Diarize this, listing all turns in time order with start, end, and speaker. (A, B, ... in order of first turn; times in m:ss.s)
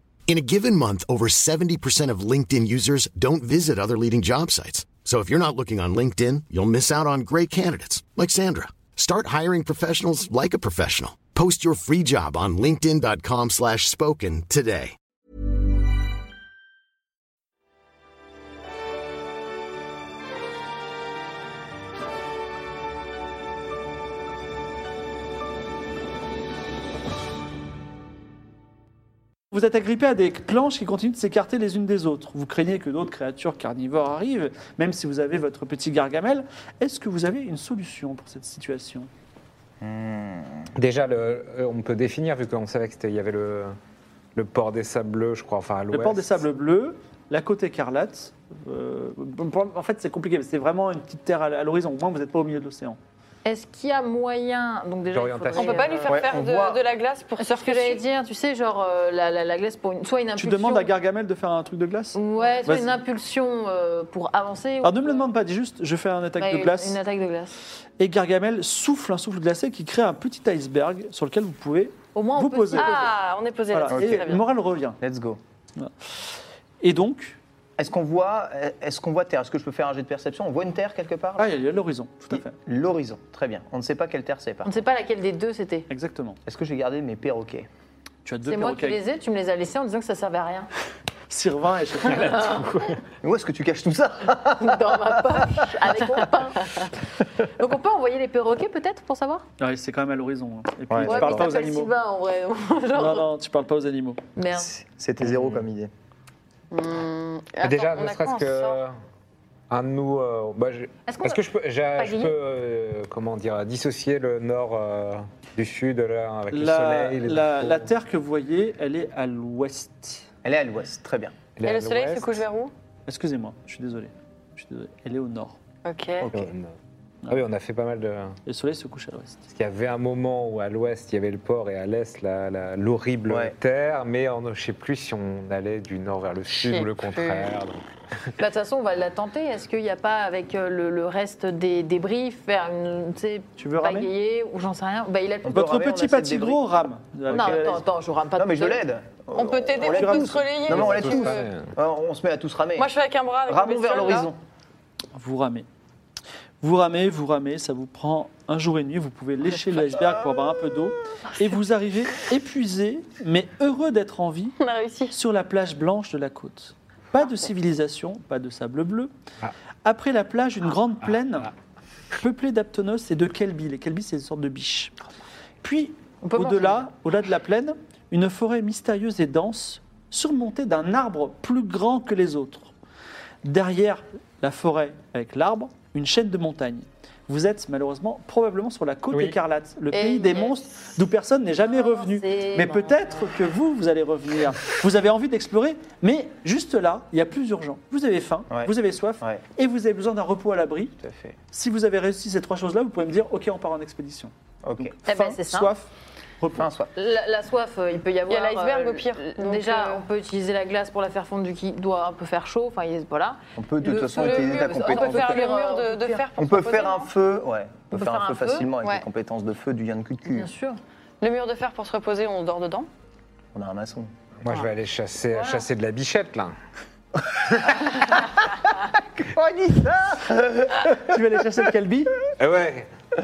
0:00.3-0:14.9 A
0:29.5-0:39.1 B
0:39.8-0:40.7 C
0:40.8-0:43.7 D
0:44.3-0:46.3 D
0:45.9-0:53.0 B
0:53.4-0:56.2 E
0:55.1-0:56.0 D
0:55.6-0:58.0 F
0:56.1-0:56.8 C
0:57.4-1:00.9 E
1:00.4-1:03.0 B
1:02.1-1:05.3 E
1:04.8-1:07.0 B
1:06.4-1:07.6 E
1:08.0-1:13.0 B
1:12.1-1:13.1 E
1:12.8-1:14.4 F
1:13.7-1:15.0 B
1:13.9-1:14.3 C
1:15.0-1:15.4 C
1:15.8-1:17.4 B
1:17.8-1:21.6 C
1:21.4-1:22.5 B
1:22.3-1:24.8 C
1:24.6-1:25.9 E
1:25.9-1:26.4 B
1:26.4-1:27.6 C
1:28.2-1:29.0 B
1:28.5-1:30.7 E
1:31.3-1:32.8 B
1:32.2-1:32.9 D
1:32.2-1:32.5 E
1:33.2-1:35.8 C
1:34.6-1:36.9 E
1:37.6-1:39.4 E
1:39.6-1:41.9 B
1:40.9-1:41.6 C
1:41.0-1:43.3 E
1:42.9-1:44.2 B
1:44.4-1:44.7 E
1:44.5-1:45.9 C
1:46.7-1:48.8 F
1:47.6-1:49.0 D
1:49.7-1:57.9 D
1:51.1-1:51.4 E
1:52.0-1:52.3 E
1:56.5-2:00.3 B
2:00.4-2:01.4 C
2:01.6-2:02.4 D
2:01.6-2:02.7 F
2:03.1-2:05.6 B
2:05.8-2:06.3 F
2:06.2-2:06.5 C
2:06.3-2:06.7 D
2:07.3-2:08.4 D
2:08.4-2:09.4 B
2:09.5-2:17.8 D
2:13.3-2:13.5 C
2:16.5-2:17.5 F
2:18.4-2:25.6 E
2:23.6-2:24.1 B
2:25.4-2:26.7 C
2:25.5-2:27.8 B
2:27.3-2:27.8 C
2:27.3-2:28.8 E
2:28.4-2:32.9 C
2:29.3-2:31.3 F
2:29.8-2:31.0 B
2:30.7-2:31.7 D
2:32.8-2:34.3 F
2:33.5-2:34.4 C
2:35.1-2:35.6 B
2:36.6-2:44.6 B
2:44.6-2:45.1 F
2:45.1-2:49.1 B
2:49.8-2:51.5 B
2:52.1-2:54.9 B
2:55.6-3:02.7 B
2:56.2-2:56.8 E
3:03.4-3:21.0 B
3:09.1-3:09.4 D
3:09.9-3:10.6 E
3:11.7-3:13.3 E
3:18.5-3:19.4 C
3:21.0-3:21.4 C
3:21.5-3:25.9 B
3:24.6-3:25.0 C
3:25.0-3:25.7 E
3:26.4-3:26.7 B
3:26.6-3:26.9 C
3:26.9-3:36.2 E
3:28.3-3:30.0 F
3:33.6-3:35.5 C
3:34.2-3:37.1 F
3:36.4-3:40.5 C
3:37.9-3:38.7 E
3:40.3-3:40.8 E
3:41.2-3:42.9 F
3:43.5-3:44.1 C
3:44.4-3:46.5 D
3:45.3-3:45.6 E
3:49.2-3:51.1 C
3:51.0-3:52.2 B
3:52.4-3:52.9 D